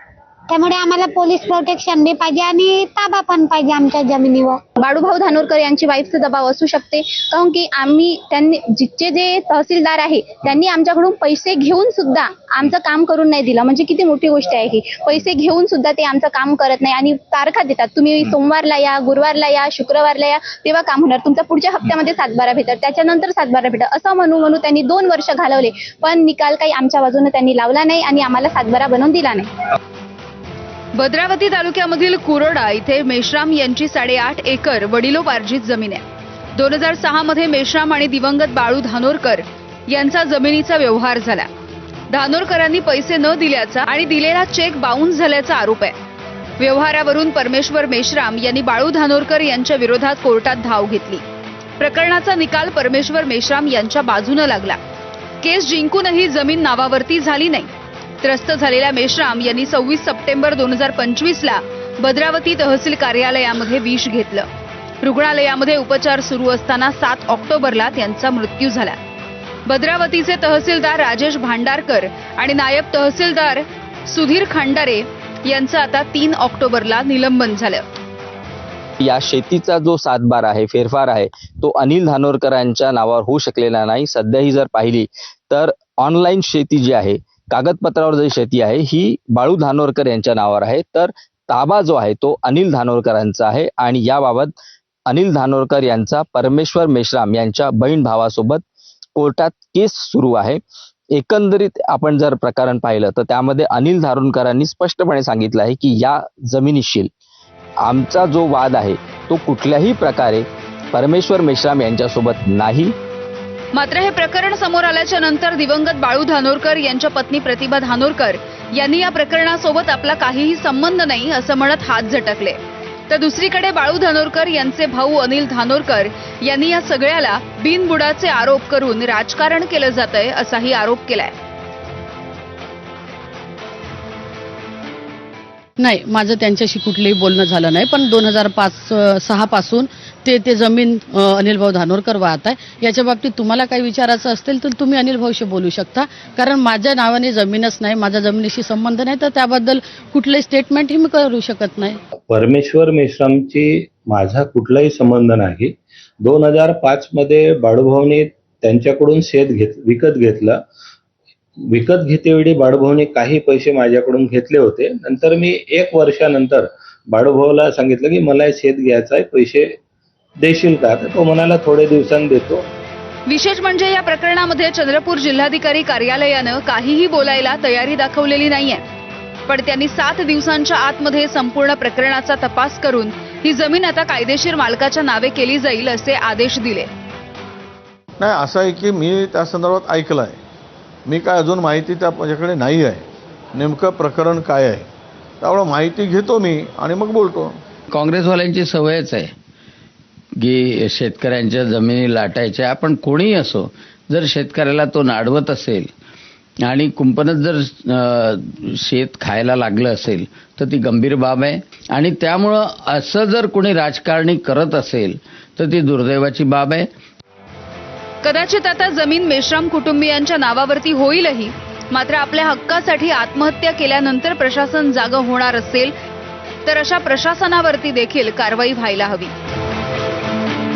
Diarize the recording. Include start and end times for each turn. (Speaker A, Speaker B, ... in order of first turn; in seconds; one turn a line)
Speaker A: 0.5-4.6
Speaker B: 4.8-29.5
Speaker C: 30.9-36.0
Speaker C: 36.5-41.5
Speaker C: 42.1-45.9
Speaker C: 46.6-51.2
Speaker C: 51.8-54.8
Speaker C: 55.4-57.7
Speaker C: 58.2-64.5
Speaker C: 65.0-69.0
Speaker C: 69.7-77.8
Speaker D: 79.0-94.5
Speaker D: 95.1-98.6
Speaker D: 99.2-100.6
Speaker D: 101.1-107.1
Speaker D: 107.8-112.9
Speaker C: 113.7-131.3
Speaker E: 135.8-152.0
Speaker F: 152.2-160.6
Speaker F: 161.6-169.8
Speaker F: 170.4-172.7
Speaker C: 173.3-178.8
Speaker C: 179.5-186.9
Speaker G: 188.2-190.4
Speaker G: 191.1-194.9
Speaker G: 195.4-197.6
Speaker H: 197.9-199.3
Speaker H: 200.4-205.9
Speaker H: 206.6-216.9
Speaker C: 218.2-225.9
Speaker C: 226.7-229.3